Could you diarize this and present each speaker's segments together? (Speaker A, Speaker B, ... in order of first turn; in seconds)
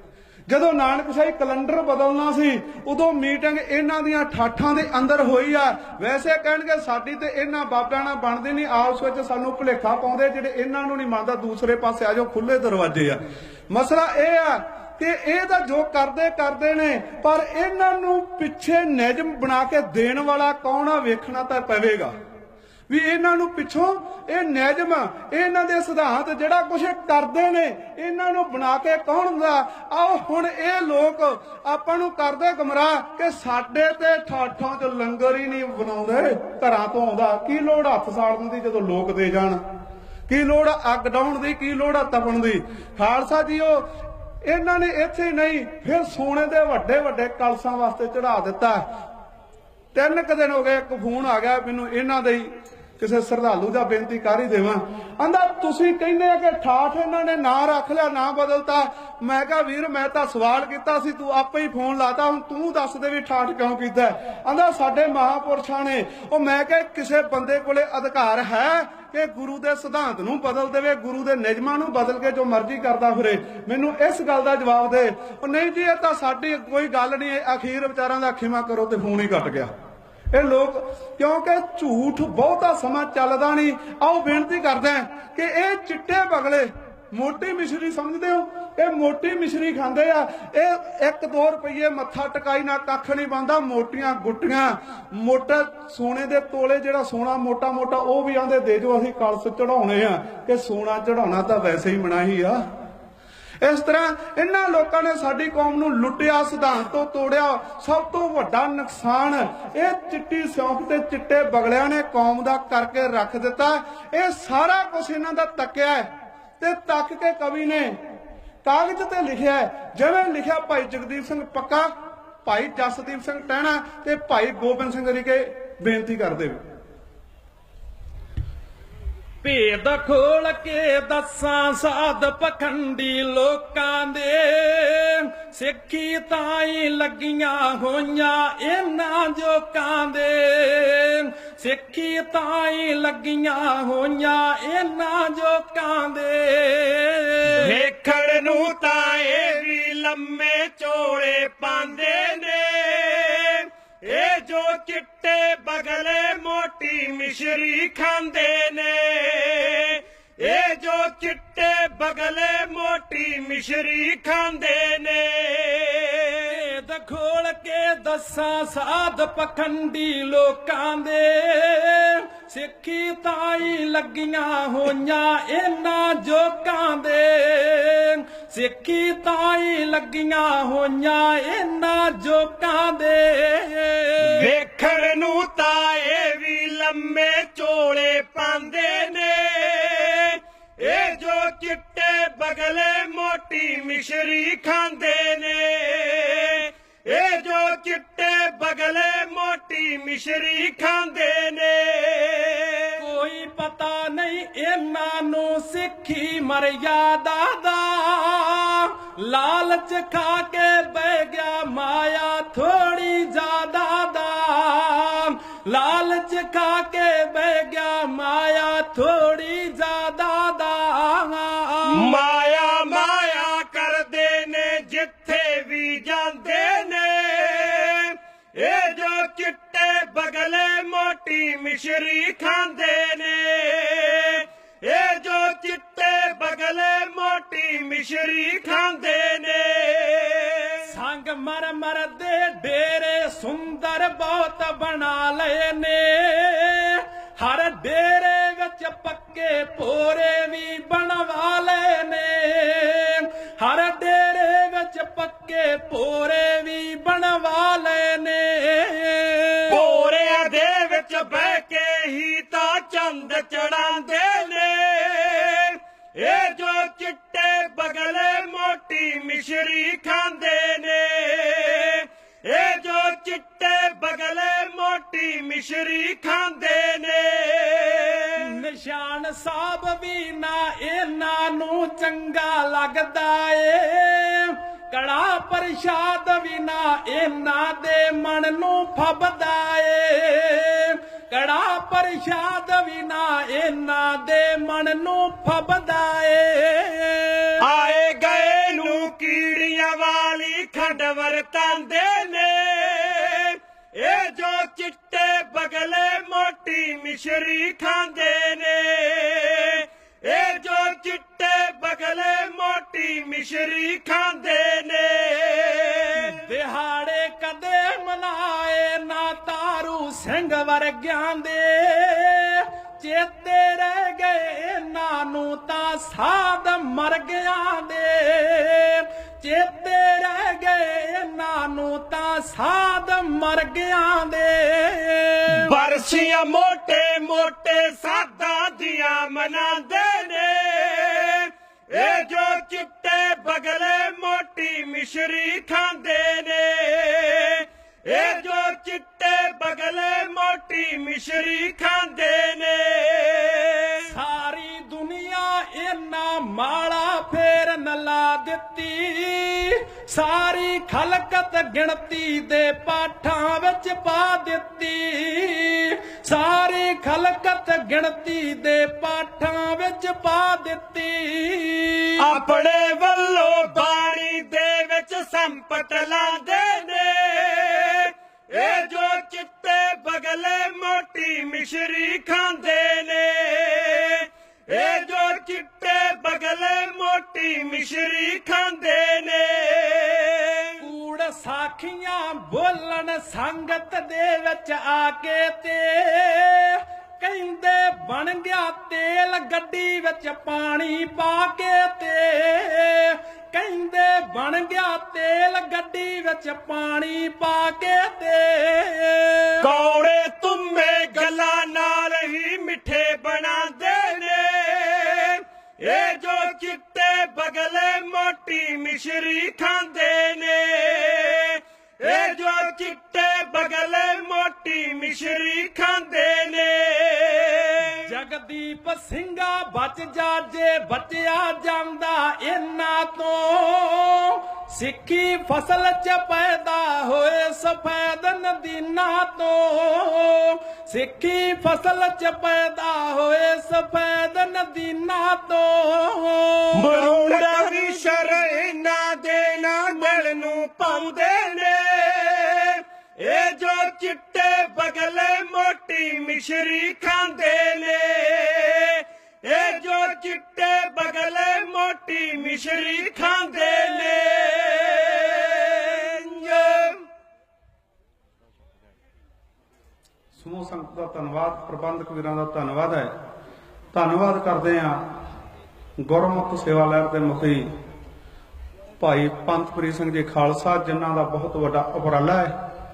Speaker A: 0.5-13.2, 13.7-22.1, 22.9-39.6, 40.3-43.9, 44.4-48.8, 49.9-79.7, 80.3-102.6, 103.6-116.1, 116.6-118.0, 118.6-121.9, 122.4-126.6, 470.4-473.1, 473.9-475.0, 476.0-477.7, 479.0-482.5
Speaker B: 129.4-147.7, 166.4-184.4, 203.0-222.1, 240.9-259.8, 278.4-297.6, 316.2-335.7, 354.1-372.2, 390.8-409.6, 428.0-446.9
Speaker C: 147.6-166.4, 184.2-202.9, 221.9-240.8, 259.7-278.4, 297.6-316.4, 335.5-354.1, 372.2-390.7, 409.6-428.0, 446.7-467.0